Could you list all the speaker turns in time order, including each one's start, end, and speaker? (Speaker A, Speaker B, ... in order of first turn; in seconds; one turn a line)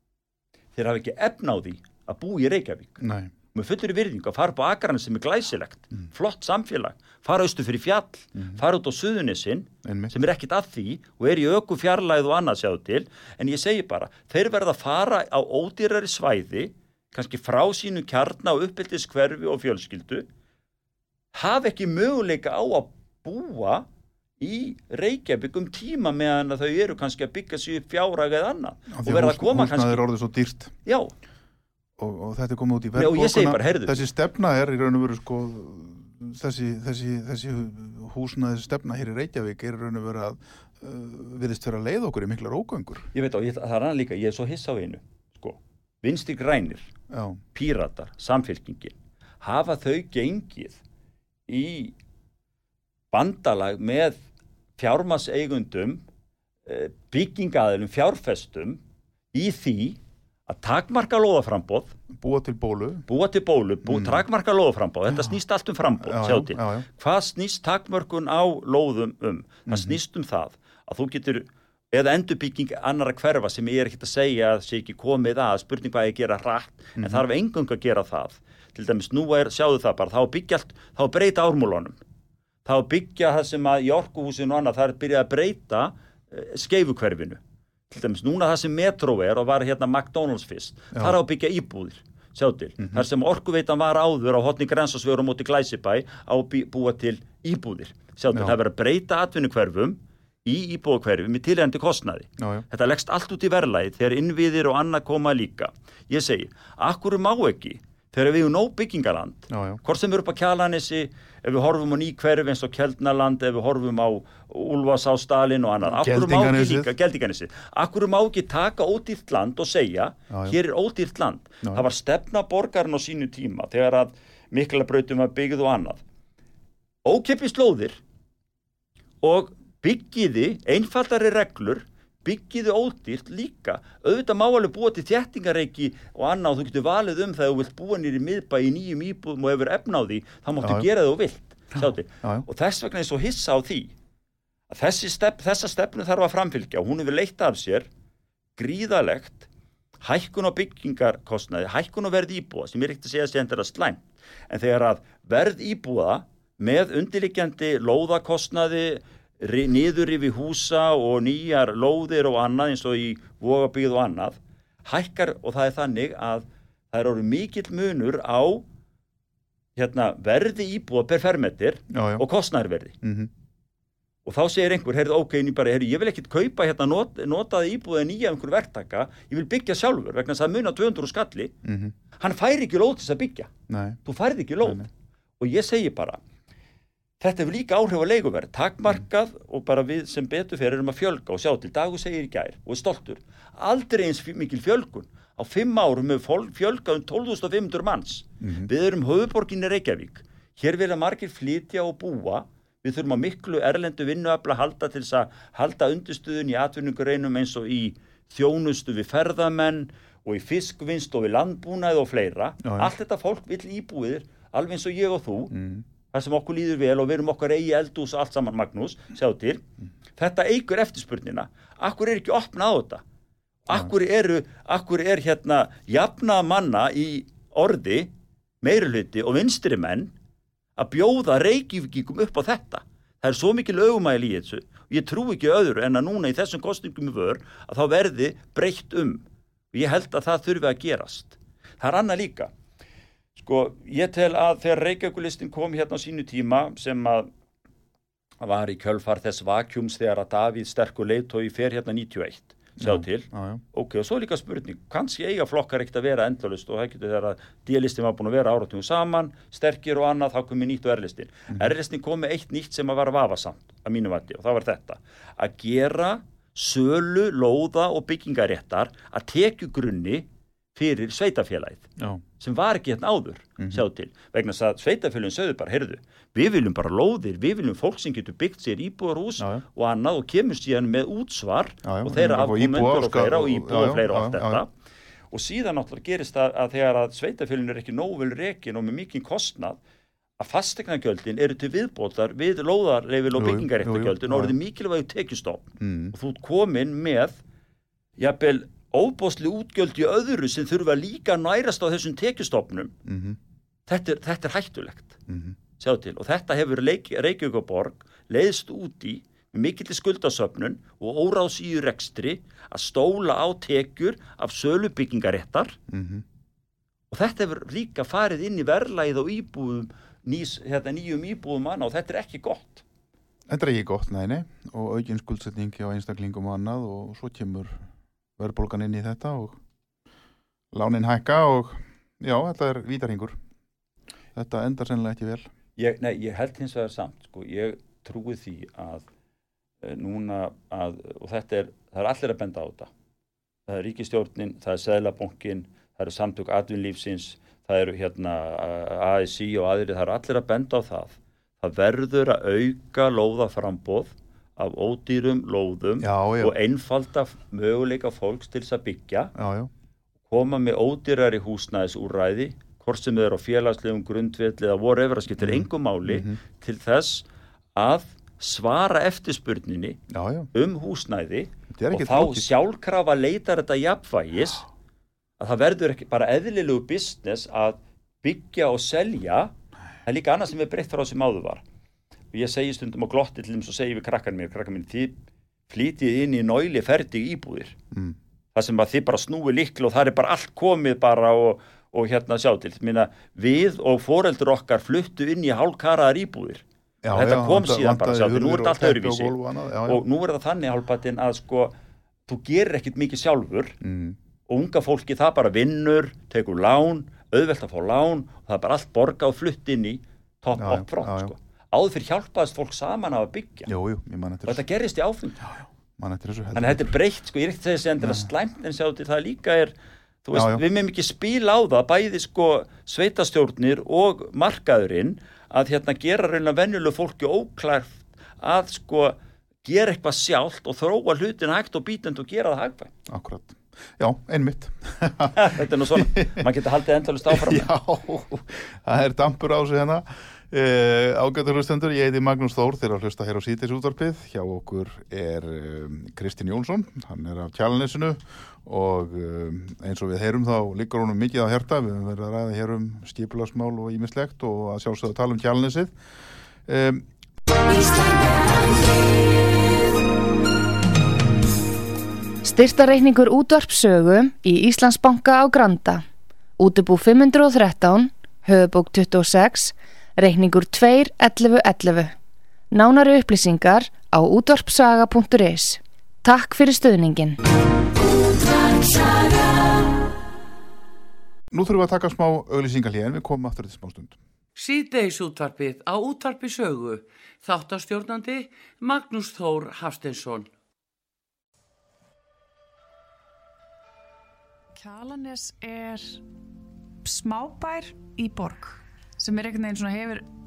Speaker A: 0.8-3.0
Speaker B: 3.0-3.3
Speaker A: 3.5-20.3
Speaker B: 8.4-8.6
Speaker B: 9.8-10.1
Speaker A: 21.3-23.9
Speaker A: 24.4-30.1
Speaker B: 28.9-30.7
Speaker A: 30.9-31.1
Speaker B: 32.0-43.1
Speaker A: 33.0-34.0
Speaker A: 43.1-46.9
Speaker B: 47.1-47.4
Speaker A: 47.5-50.8
Speaker A: 51.5-52.0
Speaker A: 53.1-54.2
Speaker A: 54.8-56.0
Speaker A: 56.7-58.8
Speaker A: 59.3-62.0
Speaker B: 62.1-63.1
Speaker A: 63.1-82.0
Speaker B: 63.9-64.2
Speaker B: 65.1-65.4
Speaker B: 66.0-66.9
Speaker B: 69.7-70.0
Speaker B: 77.0-77.2
Speaker A: 82.7-126.0
Speaker B: 102.4-102.7
Speaker B: 109.5-109.8
Speaker B: 115.8-116.9
Speaker B: 120.3-120.6
Speaker B: 121.6-121.9
Speaker A: 127.0-128.0
Speaker A: 129.2-143.9
Speaker B: 140.6-140.9
Speaker B: 141.8-142.5
Speaker A: 144.7-147.9
Speaker A: 148.6-149.5
Speaker A: 150.0-168.7
Speaker A: 169.8-173.0
Speaker B: 171.9-172.3
Speaker B: 173.0-173.3
Speaker A: 174.2-181.5
Speaker B: 181.6-181.9
Speaker A: 182.2-183.5
Speaker B: 183.7-184.0
Speaker A: 184.1-186.2
Speaker B: 184.6-184.9
Speaker A: 187.2-215.6
Speaker B: 198.4-198.7
Speaker B: 212.6-212.9
Speaker B: 215.5-215.8
Speaker A: 216.1-219.6
Speaker A: 220.2-223.0
Speaker A: 223.7-228.1
Speaker A: 228.6-230.1
Speaker A: 230.8-242.5
Speaker A: 243.4-247.3
Speaker A: 248.4-271.9
Speaker B: 252.8-253.6
Speaker B: 272.0-272.2
Speaker A: 272.4-284.7
Speaker B: 279.4-279.6
Speaker B: 281.8-284.6
Speaker A: 285.3-289.8
Speaker A: 290.4-297.4
Speaker B: 293.3-294.6
Speaker B: 295.8-296.1
Speaker A: 298.2-302.9
Speaker B: 303.1-303.4
Speaker A: 303.9-305.2
Speaker B: 305.3-305.6
Speaker A: 305.8-315.8
Speaker B: 315.9-316.2
Speaker A: 317.1-322.8
Speaker B: 323.5-327.9
Speaker B: 328.4-329.6
Speaker B: 330.7-333.4
Speaker B: 334.4-335.5
Speaker A: 335.8-339.1
Speaker A: 339.8-342.9
Speaker A: 343.7-359.3
Speaker B: 356.0-356.6
Speaker B: 359.4-359.7
Speaker A: 360.3-370.0
Speaker B: 365.4-366.4
Speaker B: 370.1-370.5
Speaker A: 370.5-374.7
Speaker B: 371.7-372.5
Speaker A: 375.4-379.5
Speaker A: 380.1-381.6
Speaker A: 382.3-385.1
Speaker A: 385.7-387.8
Speaker B: 387.9-388.2
Speaker A: 388.6-399.3
Speaker B: 397.0-400.0
Speaker A: 399.9-401.7
Speaker A: 402.3-403.8
Speaker B: 403.8-404.2
Speaker A: 404.5-413.7
Speaker B: 410.6-411.3
Speaker B: 413.7-414.6
Speaker A: 414.5-415.4
Speaker B: 415.4-416.9
Speaker A: 416.6-419.7
Speaker B: 418.0-418.3
Speaker A: 420.2-432.9
Speaker B: 420.3-420.6
Speaker B: 433.1-436.4
Speaker A: 435.3-437.7
Speaker B: 437.3-455.9
Speaker B: 456.7-457.1
Speaker C: 457.8-458.4
Speaker C: 462.4-466.0
Speaker C: 466.6-472.1
Speaker C: 472.7-477.4
Speaker C: 478.4-479.5
Speaker B: 481.5-484.2
Speaker D: 484.6-490.5
Speaker E: 494.8-496.2
Speaker E: 497.0-500.3